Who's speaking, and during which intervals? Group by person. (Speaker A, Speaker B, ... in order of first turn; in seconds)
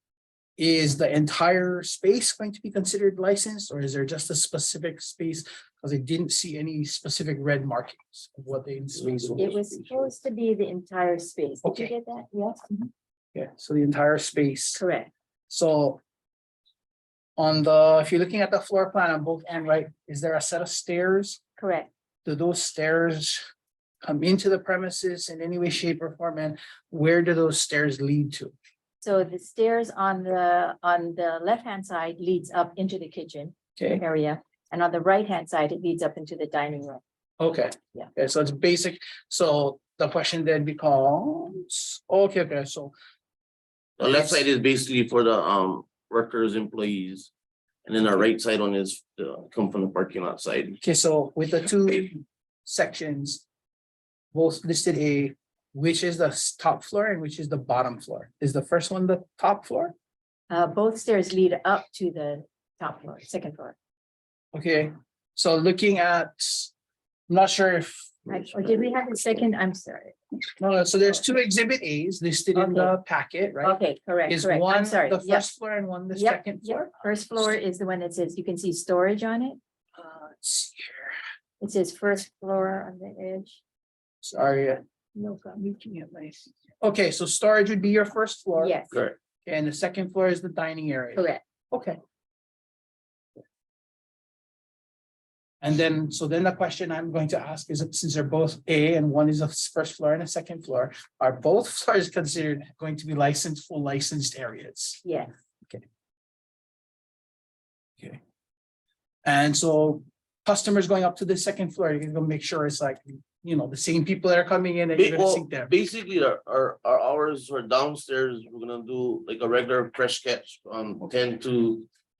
Speaker A: 0.6-9.6, 11.6-11.9, 13.3-14.8, 15.5-16.0, 17.4-21.4, 22.2-23.4, 24.0-28.5, 33.8-34.0, 37.4-42.9, 44.0-44.4, 50.8-53.4, 54.3-59.9, 64.5-66.7, 67.3-68.3, 70.6-76.9, 80.0-81.1, 84.2-84.8, 85.3-88.8, 89.5-92.0, 95.6-105.0, 109.2-115.7
Speaker B: 8.9-10.1, 44.0-47.3, 47.9-50.8, 115.0-121.9
Speaker C: 9.4-12.9, 14.8-15.1, 21.6-21.9, 29.0-37.0, 60.5-63.7, 68.3-70.2, 72.5-72.9, 73.6-75.2, 76.8-79.6, 81.6-83.6